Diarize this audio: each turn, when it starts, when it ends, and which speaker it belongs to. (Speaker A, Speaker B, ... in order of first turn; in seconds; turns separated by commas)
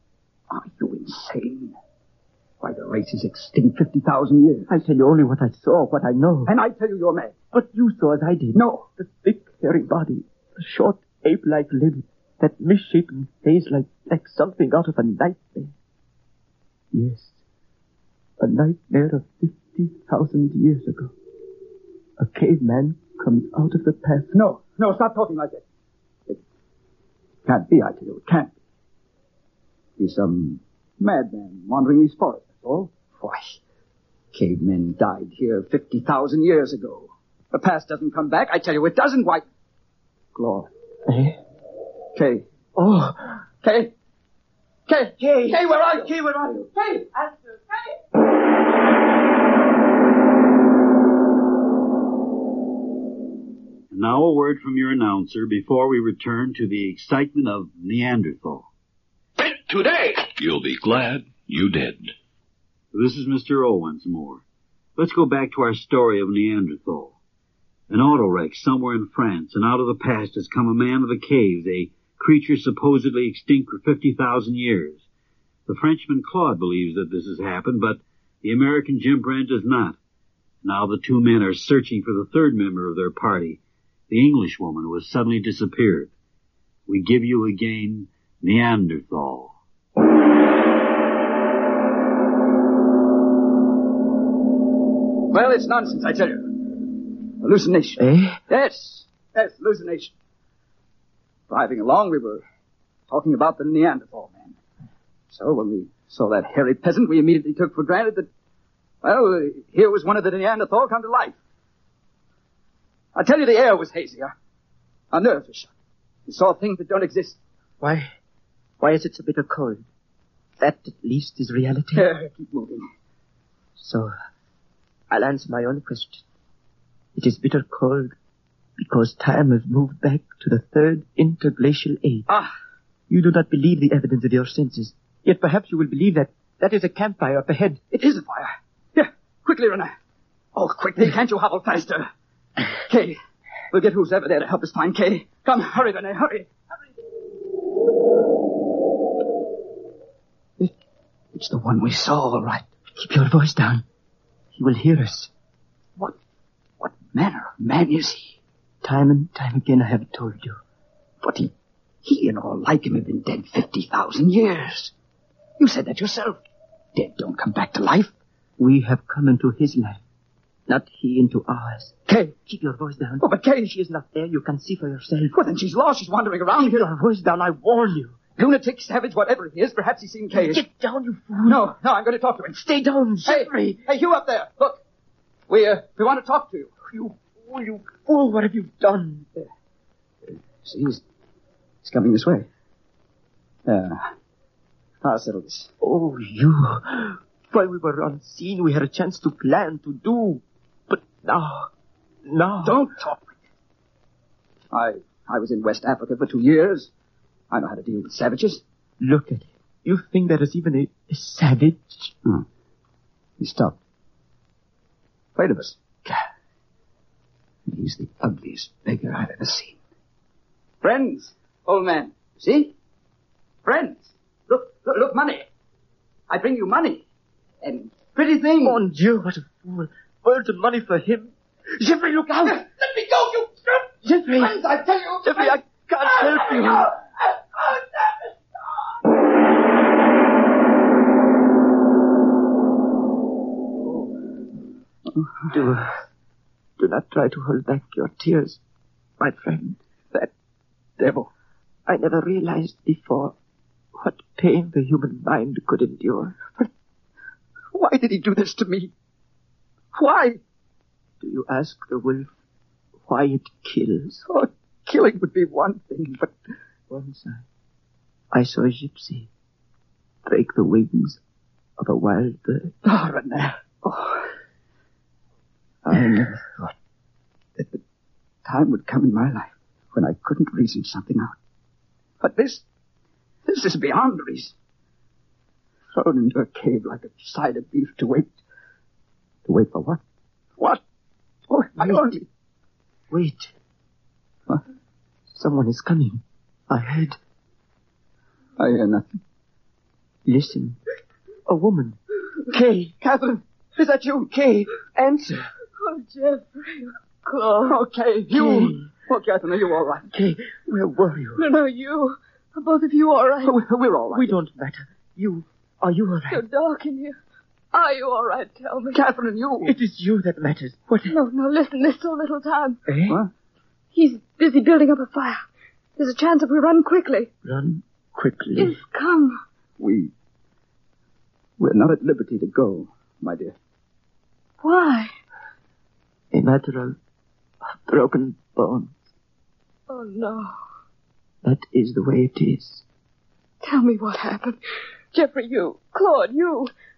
Speaker A: 0.5-1.7, Speaker A: 2.6-4.7, Speaker B: 4.7-6.5, Speaker A: 6.5-7.3, Speaker B: 7.5-15.7, Speaker A: 8.5-8.8, Speaker B: 16.9-17.4, Speaker B: 18.4-21.1, Speaker B: 22.2-24.3, Speaker A: 24.3-25.6, Speaker A: 27.5-28.5, Speaker A: 30.0-33.6, Speaker A: 34.3-39.4, Speaker A: 40.4-40.7, Speaker B: 41.0-41.4, Speaker A: 42.1-42.4, Speaker B: 42.8-43.4, Speaker A: 43.6-43.9, Speaker A: 44.9-46.7, Speaker B: 45.2-47.9, Speaker C: 53.9-58.7, Speaker D: 59.4-62.1, Speaker C: 62.9-64.4, Speaker C: 65.0-67.1, Speaker C: 67.9-75.0, Speaker C: 75.7-80.0, Speaker C: 80.6-86.1, Speaker C: 86.9-89.5, Speaker A: 95.3-96.6, Speaker A: 97.4-100.1, Speaker B: 98.0-98.4, Speaker A: 101.5-102.4, Speaker A: 103.1-104.5, Speaker A: 105.3-108.3, Speaker A: 109.0-111.4, Speaker A: 113.1-114.3, Speaker A: 115.1-115.7, Speaker A: 116.2-117.4, Speaker B: 117.8-118.1, Speaker B: 118.8-119.9, Speaker B: 120.6-122.1, Speaker A: 121.9-122.8, Speaker B: 123.8-124.1, Speaker B: 125.1-126.2, Speaker B: 127.1-128.1, Speaker B: 128.8-132.3, Speaker B: 133.1-137.8, Speaker A: 137.9-139.9, Speaker A: 140.5-142.1, Speaker A: 142.8-143.2, Speaker A: 143.7-146.5, Speaker A: 151.3-152.7, Speaker B: 152.9-153.8, Speaker B: 154.5-155.3, Speaker A: 156.8-158.4, Speaker B: 158.8-160.6, Speaker A: 161.2-161.5, Speaker A: 162.0-164.9, Speaker A: 165.6-166.4, Speaker A: 166.9-168.1, Speaker B: 168.6-170.0, Speaker B: 170.7-175.4, Speaker A: 173.2-173.7, Speaker A: 175.3-176.9, Speaker B: 176.5-178.2, Speaker A: 178.4-180.6, Speaker B: 180.3-181.7, Speaker A: 181.4-182.6, Speaker B: 182.5-183.8, Speaker A: 183.2-184.8, Speaker A: 185.5-186.7, Speaker B: 186.9-189.2, Speaker A: 190.3-191.0, Speaker A: 191.8-192.5, Speaker A: 193.7-194.0, Speaker A: 195.0-195.7, Speaker B: 195.8-201.7, Speaker B: 202.2-202.8, Speaker A: 202.6-203.4, Speaker A: 204.7-206.9, Speaker A: 207.5-208.6, Speaker B: 209.0-212.1, Speaker A: 213.4-213.8, Speaker A: 215.4-216.2, Speaker A: 217.7-219.8, Speaker A: 220.8-222.7, Speaker A: 223.6-225.5, Speaker A: 226.3-227.0, Speaker A: 227.6-228.8, Speaker B: 228.6-232.6, Speaker A: 232.4-238.7, Speaker B: 234.0-234.6, Speaker B: 235.2-236.9, Speaker A: 245.1-245.6, Speaker B: 245.5-246.0, Speaker B: 246.8-248.6, Speaker B: 249.2-249.8, Speaker A: 251.0-251.3, Speaker B: 251.9-253.3, Speaker B: 253.9-256.7, Speaker A: 257.7-258.9, Speaker A: 259.9-260.4, Speaker B: 261.2-262.3, Speaker B: 263.1-264.2, Speaker A: 264.2-266.3, Speaker B: 266.9-267.4, Speaker B: 268.3-269.3, Speaker B: 270.2-271.2, Speaker B: 271.8-272.8, Speaker A: 272.8-274.3, Speaker A: 275.9-276.4, Speaker B: 275.9-276.7, Speaker A: 277.6-277.8, Speaker A: 278.4-281.4, Speaker A: 282.2-282.6, Speaker A: 283.5-284.5, Speaker A: 285.9-288.4, Speaker A: 289.5-290.0, Speaker A: 291.5-292.2, Speaker B: 291.8-292.2, Speaker B: 293.1-293.5, Speaker B: 295.3-297.2, Speaker A: 298.6-299.2, Speaker B: 300.2-300.8, Speaker B: 301.4-302.9, Speaker A: 303.0-304.3, Speaker B: 304.3-305.5, Speaker E: 305.8-307.8, Speaker A: 307.6-310.1, Speaker B: 308.3-308.9, Speaker B: 310.1-311.4, Speaker E: 311.4-313.6, Speaker A: 313.4-314.3, Speaker B: 314.1-316.4, Speaker E: 316.3-317.2, Speaker E: 317.7-319.0, Speaker A: 318.9-319.7, Speaker B: 319.6-321.1, Speaker E: 321.1-322.8, Speaker B: 322.9-323.2, Speaker E: 323.9-325.4, Speaker E: 326.0-327.3, Speaker B: 327.4-328.8, Speaker E: 328.6-329.4, Speaker A: 329.8-330.1, Speaker A: 331.6-333.6, Speaker E: 334.6-335.1, Speaker B: 336.3-337.0, Speaker B: 337.7-339.0, Speaker E: 339.9-340.5, Speaker B: 341.4-342.8, Speaker E: 343.6-344.6, Speaker E: 345.1-346.7